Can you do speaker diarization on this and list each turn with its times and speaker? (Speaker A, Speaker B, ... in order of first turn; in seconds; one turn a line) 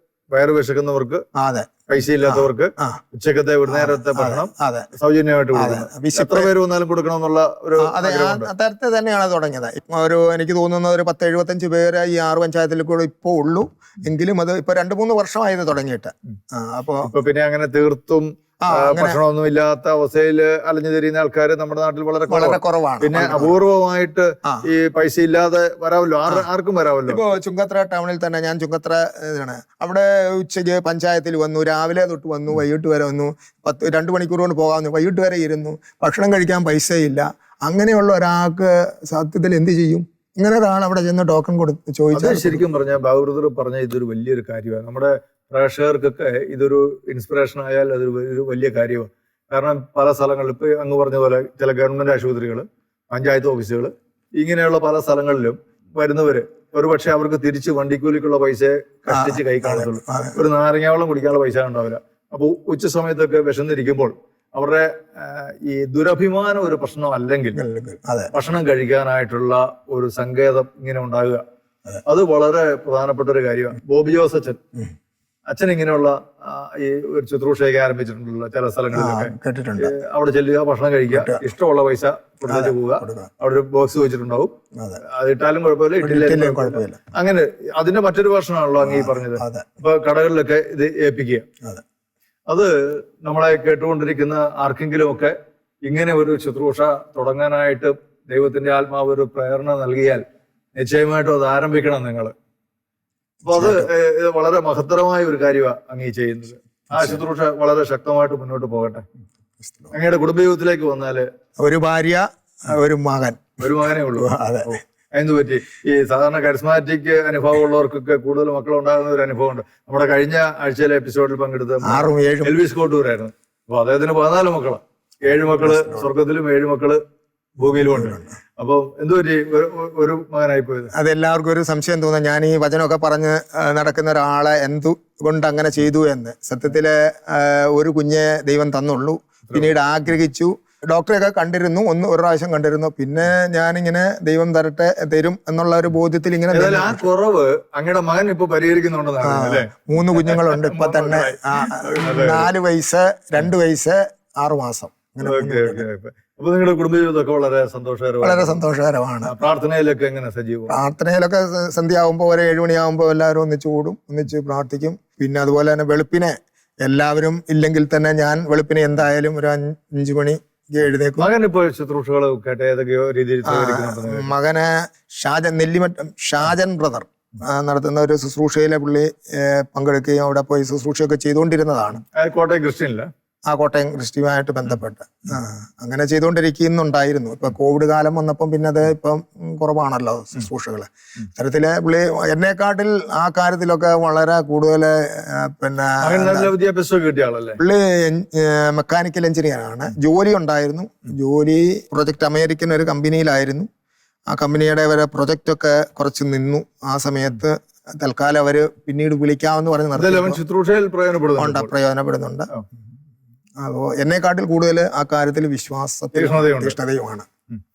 Speaker A: 0.3-1.2
Speaker B: 1.3-1.7
Speaker A: 1.9-8.5
Speaker B: 2.2-3.0
Speaker B: 3.7-4.9
Speaker B: 5.5-6.5
Speaker B: 7.8-17.1
Speaker A: 17.0-27.2
Speaker B: 18.6-19.2
Speaker B: 22.3-23.6
Speaker B: 27.1-42.6
Speaker A: 42.1-67.6
Speaker B: 59.1-60.4
Speaker B: 67.5-68.3
Speaker A: 68.3-71.4
Speaker A: 72.0-74.6
Speaker A: 75.5-91.5
Speaker B: 78.9-79.9
Speaker B: 81.1-81.4
Speaker B: 82.5-83.3
Speaker B: 84.7-85.0
Speaker B: 86.0-87.0
Speaker B: 88.8-89.7
Speaker A: 92.5-100.2
Speaker A: 100.8-102.3
Speaker A: 103.4-109.0
Speaker B: 103.5-103.9
Speaker B: 109.6-109.9
Speaker A: 109.9-111.3
Speaker B: 111.6-113.6
Speaker A: 113.6-127.0
Speaker B: 114.2-114.8
Speaker B: 121.8-122.5
Speaker B: 125.6-126.1
Speaker A: 127.6-130.9
Speaker B: 127.9-128.3
Speaker B: 130.9-147.0
Speaker A: 146.5-152.5
Speaker B: 149.2-155.8
Speaker A: 155.2-158.6
Speaker B: 158.2-159.3
Speaker A: 159.2-160.7
Speaker B: 160.7-171.3
Speaker A: 171.2-174.3
Speaker B: 173.4-182.0
Speaker A: 182.1-183.1
Speaker B: 183.5-196.5
Speaker A: 196.0-197.6
Speaker B: 197.6-203.7
Speaker B: 204.3-210.4
Speaker A: 209.9-211.7
Speaker B: 211.4-212.5
Speaker B: 213.6-217.3
Speaker A: 216.1-216.8